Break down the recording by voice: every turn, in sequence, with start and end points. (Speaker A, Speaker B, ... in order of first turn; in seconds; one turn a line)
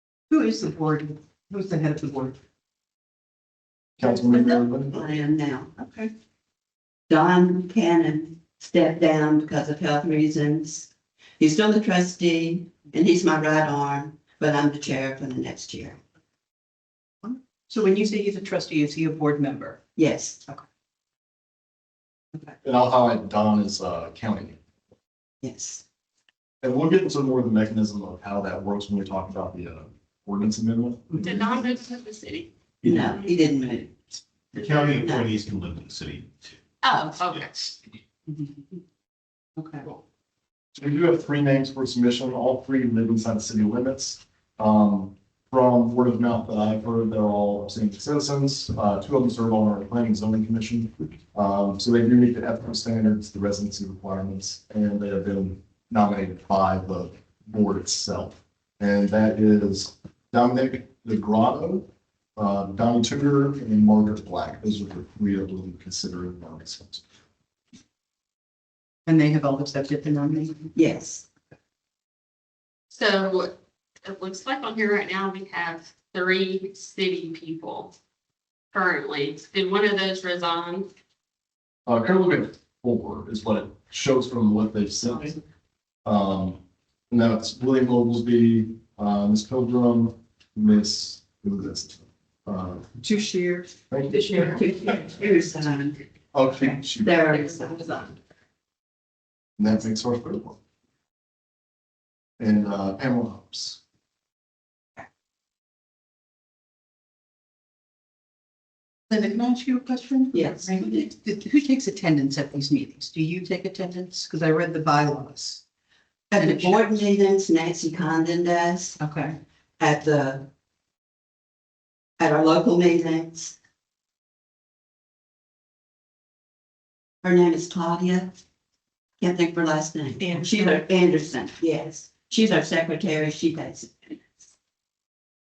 Speaker A: 0.3-2.4
Speaker B: 4.0-4.9
Speaker C: 4.1-5.7
Speaker A: 5.8-6.1
Speaker C: 7.1-10.9
Speaker C: 11.4-16.0
Speaker A: 17.2-19.8
Speaker C: 19.9-20.4
Speaker B: 22.6-24.6
Speaker C: 25.4-25.8
Speaker B: 26.6-31.3
Speaker D: 31.2-32.5
Speaker E: 32.8-33.2
Speaker C: 32.8-34.0
Speaker C: 34.5-35.3
Speaker E: 34.5-36.6
Speaker D: 36.8-37.7
Speaker A: 39.6-39.9
Speaker B: 40.8-67.0
Speaker A: 69.0-70.7
Speaker C: 70.7-71.2
Speaker D: 72.9-77.9
Speaker D: 78.7-80.9
Speaker B: 81.8-85.4
Speaker B: 86.0-92.8
Speaker A: 93.0-94.6
Speaker B: 93.9-94.2
Speaker C: 94.2-96.0
Speaker B: 96.3-97.2
Speaker C: 97.0-98.2
Speaker B: 99.6-100.6
Speaker B: 102.4-103.8
Speaker A: 109.1-115.6
Speaker C: 110.3-111.0
Speaker A: 116.3-117.0
Speaker C: 116.3-119.0
Speaker A: 119.0-119.4
Speaker C: 119.8-120.5
Speaker C: 122.2-123.5
Speaker C: 127.2-128.3
Speaker C: 129.2-134.2
Speaker A: 130.2-130.8